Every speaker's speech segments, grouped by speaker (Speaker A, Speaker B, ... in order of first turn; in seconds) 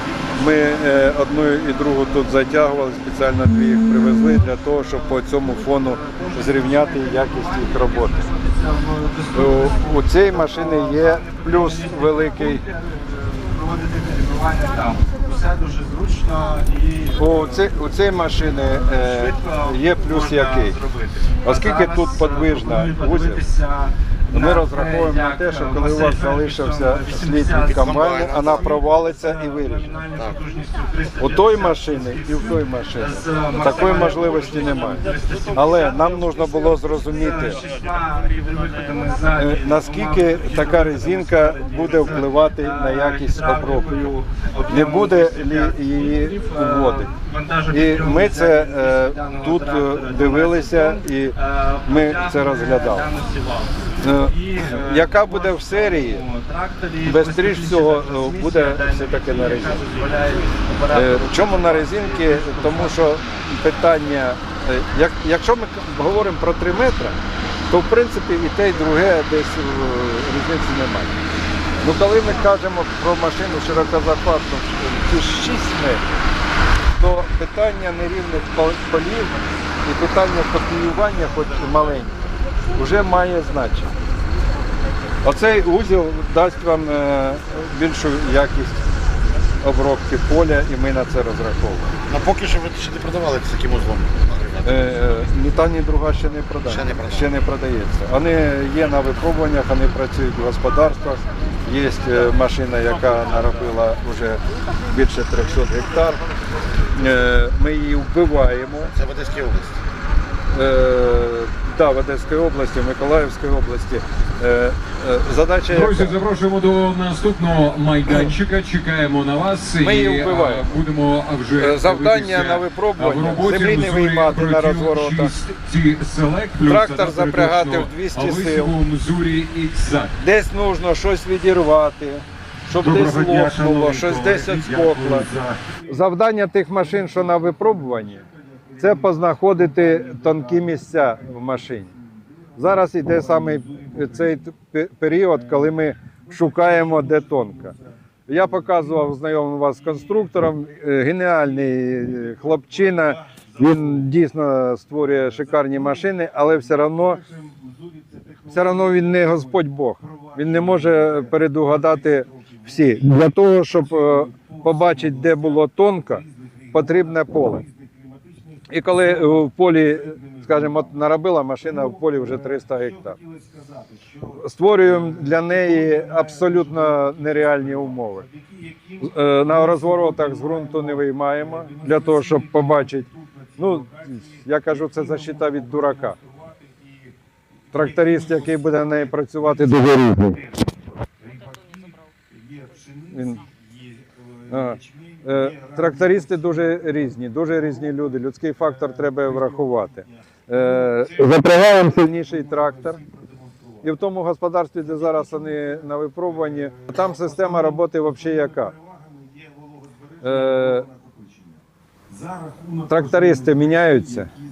Speaker A: 0.4-8.3, 9.3-12.7, 17.2-20.8, 21.4-23.4, 24.3-29.9, 31.2-37.6, 39.4-43.9, 44.7-47.1, 47.7-53.1, 54.0-56.2, 57.0-59.9, 60.9-67.2, 67.7-71.2, 71.8-76.0, 76.9-82.1, 82.7-83.9, 85.2-88.8, 89.6-92.0, 94.6-106.2, 106.9-108.9, 110.5-116.2, 119.8-120.7, 121.6-125.3, 126.6-128.8, 130.2-135.3, 135.9-138.3, 138.8-141.9, 142.6-147.8, 148.3-157.2, 158.5-167.7, 168.7-173.2, 174.4-178.3, 179.0-186.2, 187.7-190.4, 193.1-193.4, 194.5-203.0, 203.8-208.7, 210.2-210.9, 212.9-214.3
Speaker B: 5.7-17.7, 18.6-63.0
Speaker C: 27.6-28.8, 30.1-30.7, 33.6-36.1, 36.8-39.3, 92.1-95.2, 96.7-97.4, 108.8-109.8
Speaker D: 115.7-130.2, 132.8-133.3